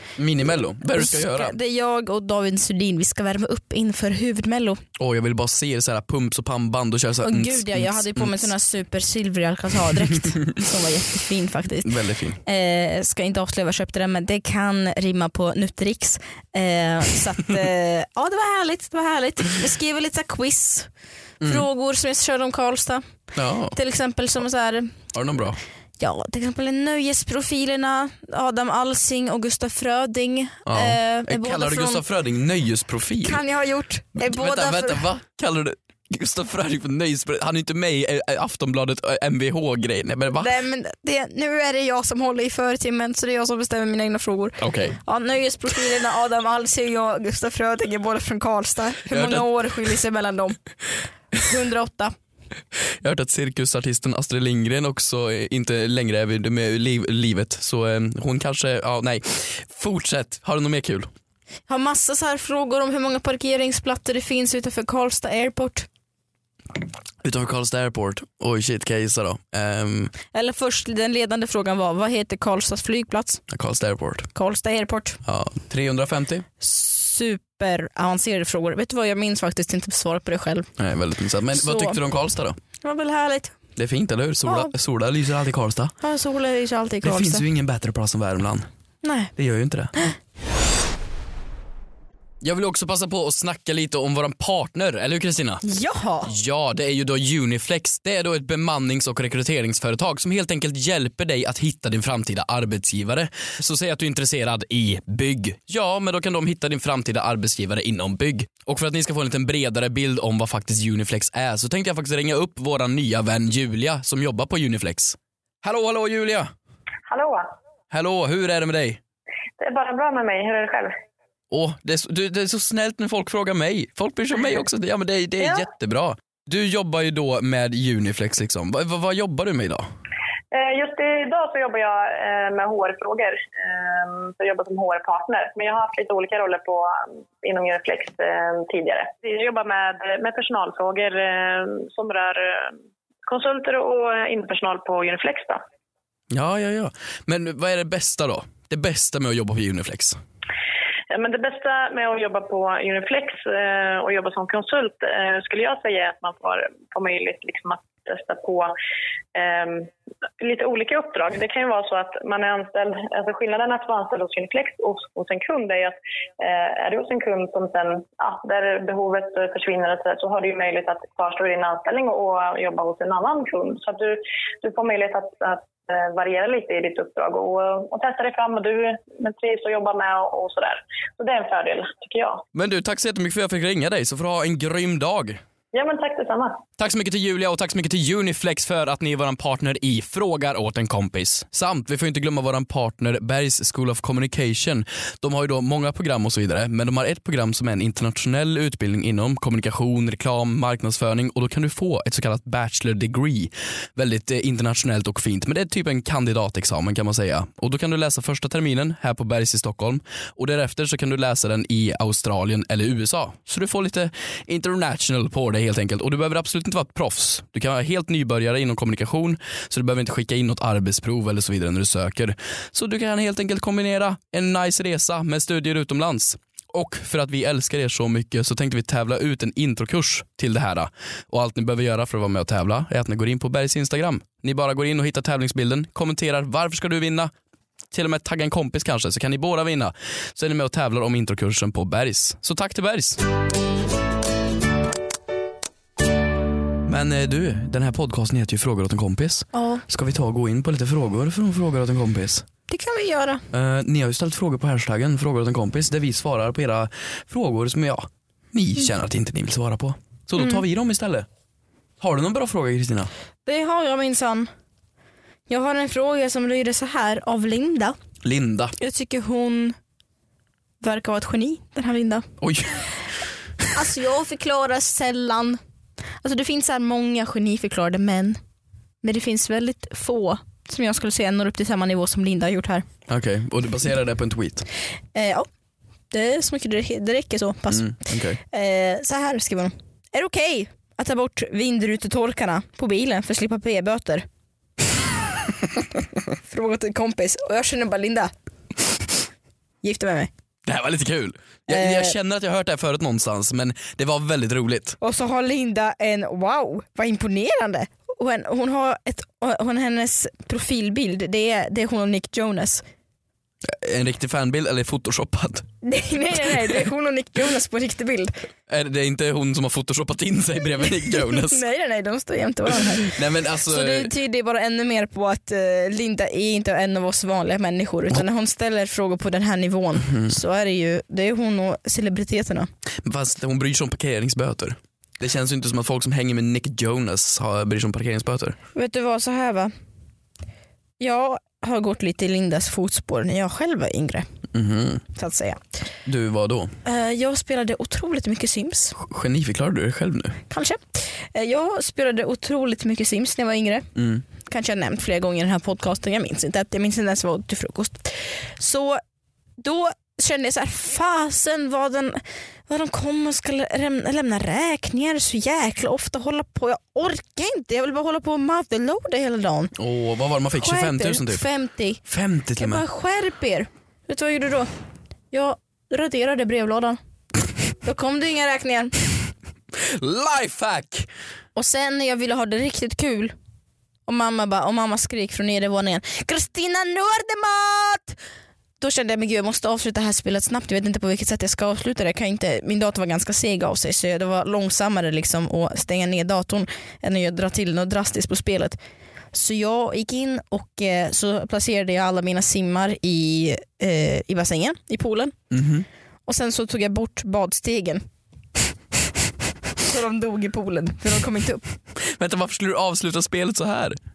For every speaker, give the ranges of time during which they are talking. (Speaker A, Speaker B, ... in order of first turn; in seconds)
Speaker A: 0.2-1.5, 5.0-8.5, 11.8-12.4, 23.4-23.8, 25.1-25.6, 30.6-33.4, 34.2-40.5, 44.6-45.0, 49.1-49.5, 53.0-61.1, 67.2-70.1, 73.5-74.3, 75.2-76.5, 80.8-82.6, 83.8-85.9, 87.0-88.7, 89.4-89.9, 92.4-95.6, 96.2-116.5, 117.9-119.0, 121.5-129.9, 146.3-150.2, 182.5-185.4, 186.8-237.3, 237.9-243.2, 246.8-252.4, 253.5-261.3, 262.0-263.1, 268.2-268.7, 272.4-272.9, 283.1-284.7, 287.7-288.4, 300.7-305.0, 313.6-315.7, 318.7-321.6, 322.9-324.1, 333.0-338.6, 344.5-345.0, 346.1-346.7, 349.0-350.4, 354.0-354.2, 369.8-371.4, 372.1-372.8, 379.7-381.1, 405.5-405.9, 412.0-414.0
Speaker B: 0.9-4.8, 7.2-11.9, 12.4-20.9, 21.4-23.1, 23.7-25.0, 26.0-32.0, 33.2-35.0, 40.4-50.6, 51.3-52.1, 61.7-65.9, 70.3-73.4, 74.3-75.2, 76.6-80.7, 81.5-82.0, 82.8-83.6, 84.5-84.7, 86.0-87.5, 89.0-89.3, 95.6-96.3, 249.5-249.8, 252.7-253.4, 263.5-264.5, 265.5-268.0, 268.8-269.8, 270.8-272.3, 273.7-275.6, 276.2-278.4, 279.0-282.9, 285.1-285.5, 286.1-294.3, 296.4-298.3, 299.8-300.3, 301.7-302.2, 305.0-312.8, 315.8-318.4, 321.0-332.7, 338.7-339.7, 341.0-344.3, 345.1-345.6, 346.8-349.0, 350.5-359.0, 359.6-369.7, 370.6-372.0, 372.6-374.7, 375.3-377.0, 377.8-378.9, 381.6-383.3, 384.1-388.2, 388.8-398.8, 399.3-405.4, 406.3-408.0, 409.8-411.6
Speaker C: 117.1-117.5, 119.6-120.9, 130.5-145.6, 151.1-158.7, 159.3-182.4, 185.7-186.6